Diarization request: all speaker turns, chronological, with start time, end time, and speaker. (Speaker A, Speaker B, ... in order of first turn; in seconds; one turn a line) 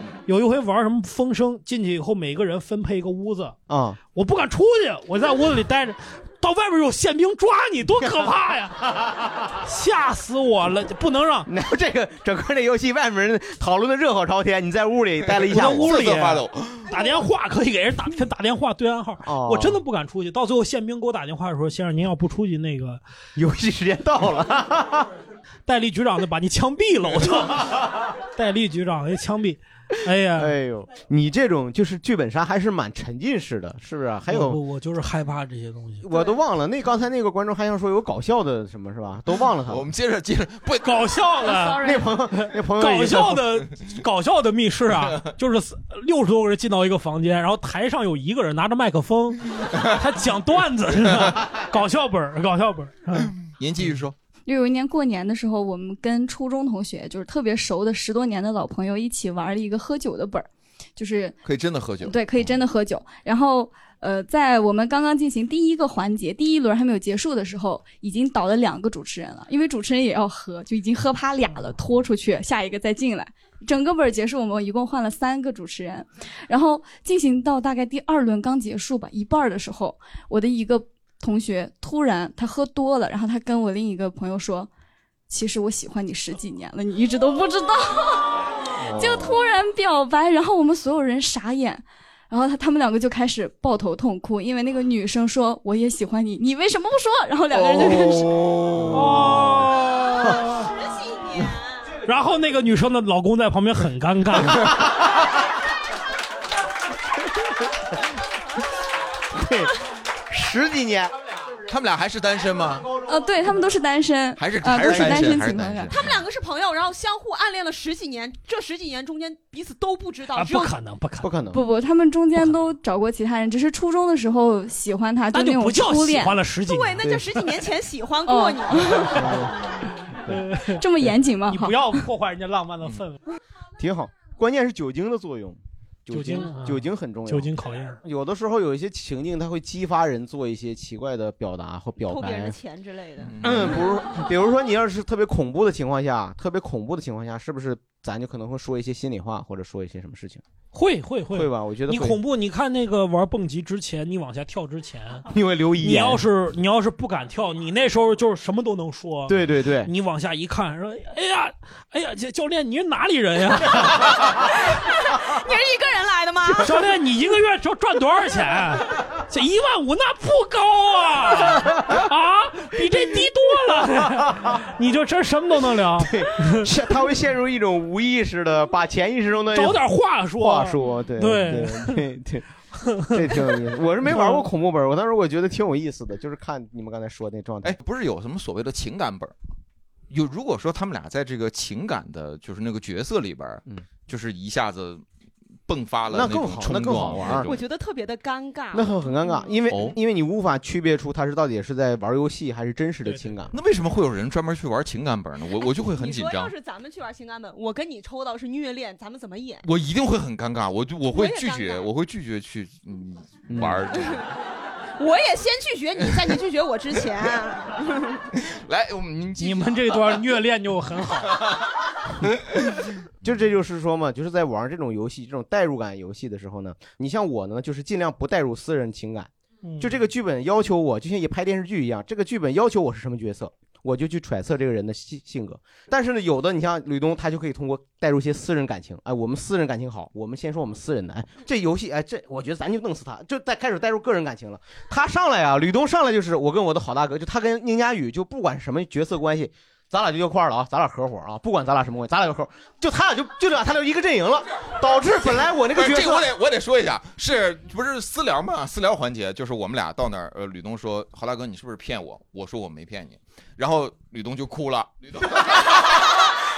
Speaker A: 0.3-3.5
Speaker B: 3.7-4.0
Speaker A: 4.1-8.9
Speaker A: 9.6-11.5
Speaker B: 11.4-16.0
Speaker A: 15.5-23.0
Speaker C: 15.5-16.9
Speaker B: 19.2-19.8
Speaker B: 23.4-25.1
Speaker A: 25.6-27.8
Speaker A: 28.4-30.5
Speaker B: 30.4-34.6
Speaker A: 34.3-36.0
Speaker B: 36.0-39.9
Speaker C: 39.7-41.0
Speaker A: 40.8-53.4
Speaker D: 41.5-41.9
Speaker B: 41.8-43.5
Speaker C: 53.6-54.1
Speaker E: 54.5-61.4
Speaker C: 61.4-62.5
Speaker E: 62.0-84.7
Speaker E: 85.3-98.3
Speaker B: 88.8-89.3
Speaker B: 97.7-99.4
Speaker A: 98.9-100.7
Speaker D: 100.6-101.9
Speaker A: 102.0-104.8
Speaker B: 109.3-109.7
Speaker B: 110.3-111.1
Speaker C: 111.7-112.9
Speaker E: 113.0-115.9
Speaker C: 114.4-116.2
Speaker B: 114.8-115.5
Speaker D: 115.9-120.8
Speaker A: 120.3-121.3
Speaker B: 121.2-121.6
Speaker E: 121.5-126.3
Speaker A: 125.3-127.0
Speaker D: 126.6-129.4
Speaker E: 128.2-129.2
Speaker B: 129.1-129.6
Speaker A: 130.3-130.8
Speaker E: 130.8-132.0
Speaker A: 131.5-133.2
Speaker B: 133.8-142.6
Speaker A: 136.1-138.0
Speaker D: 142.0-143.9
Speaker C: 143.3-143.7
Speaker B: 143.4-150.4
Speaker A: 150.7-155.3
Speaker B: 151.3-152.2
Speaker B: 155.3-156.2
Speaker A: 155.8-164.1
Speaker B: 159.3-159.9
Speaker D: 164.3-166.8
Speaker A: 166.6-176.7
Speaker B: 176.0-179.8
Speaker A: 179.5-182.1
Speaker B: 180.3-182.4
Speaker A: 182.8-184.5
Speaker B: 183.1-187.8
Speaker C: 187.6-189.3
Speaker C: 190.1-195.0
Speaker C: 195.7-197.6
Speaker B: 196.1-197.5
Speaker D: 197.2-199.5
Speaker B: 198.7-203.5
Speaker C: 199.7-200.0
Speaker A: 203.0-203.3
Speaker C: 203.5-206.5
Speaker D: 205.6-209.6
Speaker C: 209.6-214.2
Speaker D: 211.1-211.9
Speaker B: 213.5-213.8
Speaker D: 213.9-214.3
Speaker D: 215.0-218.2
Speaker C: 218.3-220.0
Speaker A: 219.4-221.5
Speaker B: 223.2-256.3
Speaker A: 229.6-230.0
Speaker C: 255.7-266.2